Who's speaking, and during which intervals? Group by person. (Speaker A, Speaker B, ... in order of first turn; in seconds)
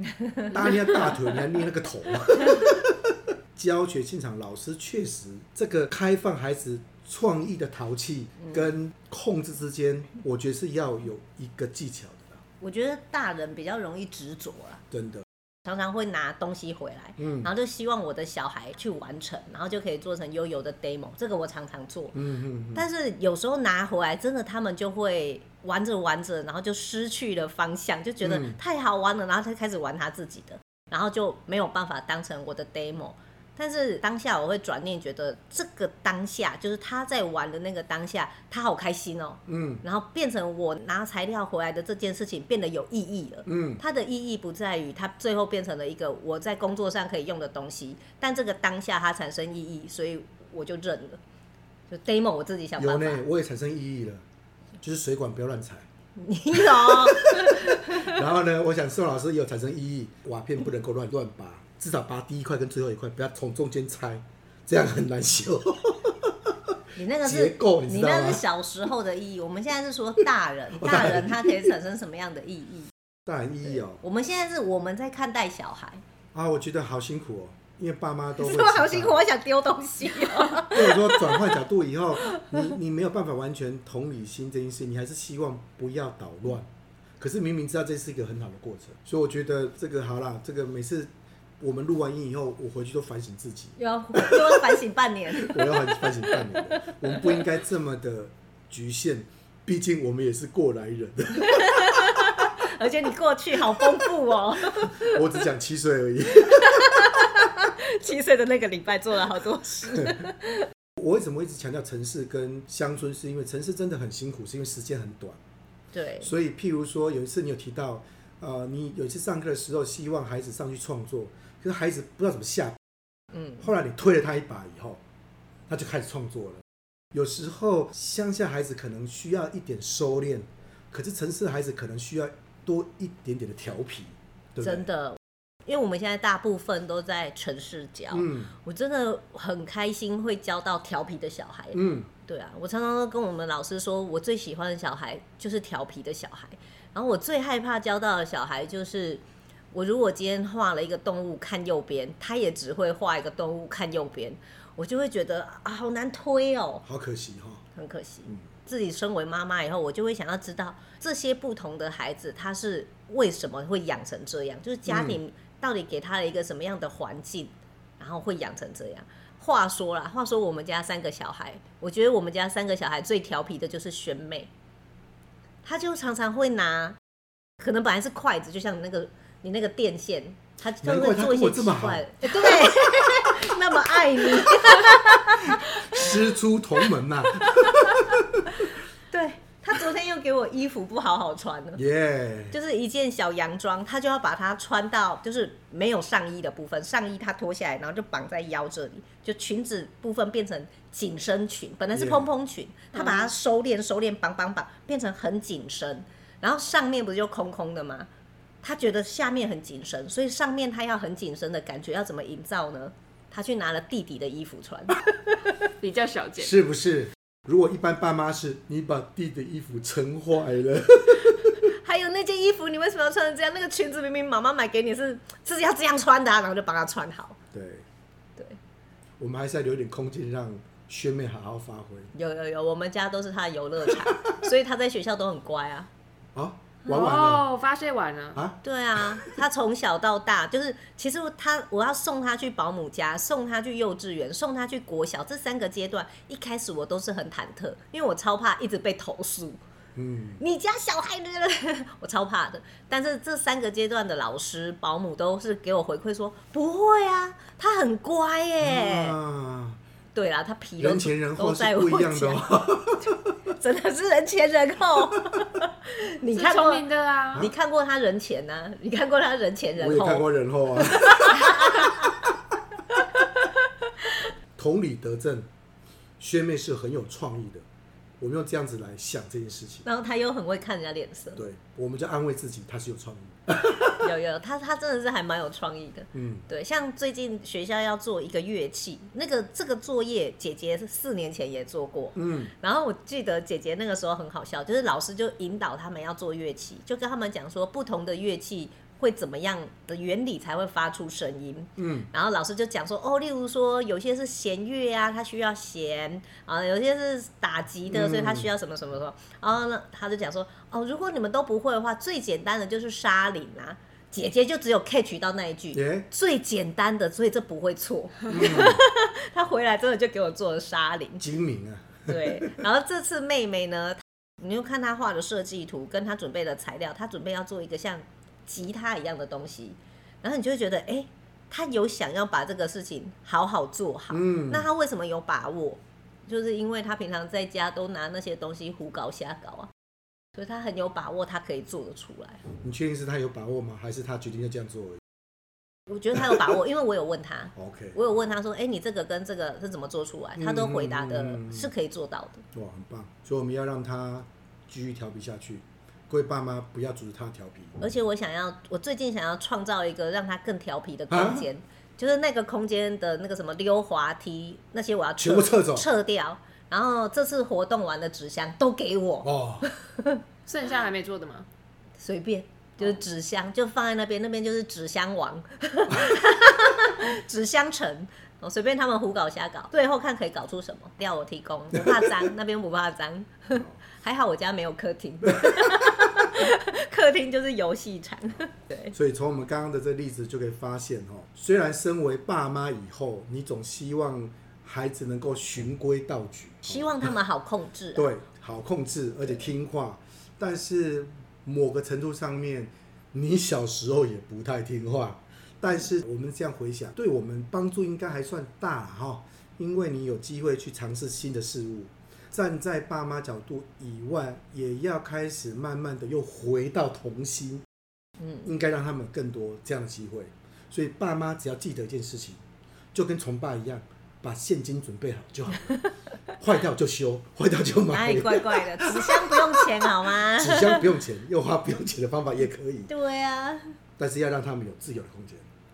Speaker A: 0.3-0.8, 12.6-14.8, 15.7-22.1, 22.7-51.2, 51.9-53.2, 56.1-58.2, 67.0-72.9, 74.0-76.0, 78.4-81.4, 82.3-82.6, 93.8-97.4, 101.4-105.2, 106.5-110.7, 115.9-116.3, 134.6-156.8, 157.7-174.5, 175.6-177.0, 177.6-186.2, 188.6-191.8, 192.5-208.1, 208.6-215.0, 221.6-227.4, 232.1-235.9, 238.6-249.6, 250.4-259.1, 260.1-262.4, 263.5-266.8, 267.4-270.2, 271.0-272.2, 273.2-273.5, 279.8-281.4, 284.0-321.2, 322.1-339.7, 340.3-342.4, 345.9-352.4, 357.8-370.2, 372.0-388.9, 396.7-398.1, 427.9-430.9, 432.9-433.7
Speaker B: 0.5-12.4, 14.9-15.2, 17.2-17.5, 22.1-22.9, 28.2-28.6, 39.5-39.8, 43.5-43.8, 52.8-54.2, 54.8-55.9, 56.5-68.4, 70.7-71.7, 73.2-74.0, 76.3-79.2, 80.7-94.8, 95.3-102.5, 103.7-104.0, 104.7-107.4, 109.9-110.3, 111.0-115.4, 116.2-122.8, 123.6-125.0, 125.7-134.9, 138.1-138.5, 141.7-142.1, 156.8-157.6, 164.9-165.2, 180.8-183.3, 185.4-188.7, 191.8-192.5, 201.9-202.3, 216.4-221.7, 227.5-227.8, 229.2-232.1, 236.3-237.5, 238.3-239.4, 249.9-250.4, 258.6-259.8, 260.8-263.3, 269.8-272.2, 274.6-275.5, 276.2-277.6, 278.2-279.9, 281.4-284.0, 286.1-286.4, 292.1-292.5, 301.8-302.1, 307.9-308.5, 315.7-316.1, 318.3-318.8, 321.2-322.6, 334.1-334.7, 342.6-345.0, 347.6-348.0, 350.4-351.7, 352.5-357.8, 361.1-361.5, 365.2-365.9, 369.2-369.6, 381.8-382.1, 385.4-385.8, 388.9-397.1, 397.9-417.6, 418.4-422.4, 422.9-425.7, 426.4-432.9, 434.0-435.5
Speaker C: 202.9-203.3, 215.8-216.5, 236.9-238.4, 266.3-267.5, 370.4-371.5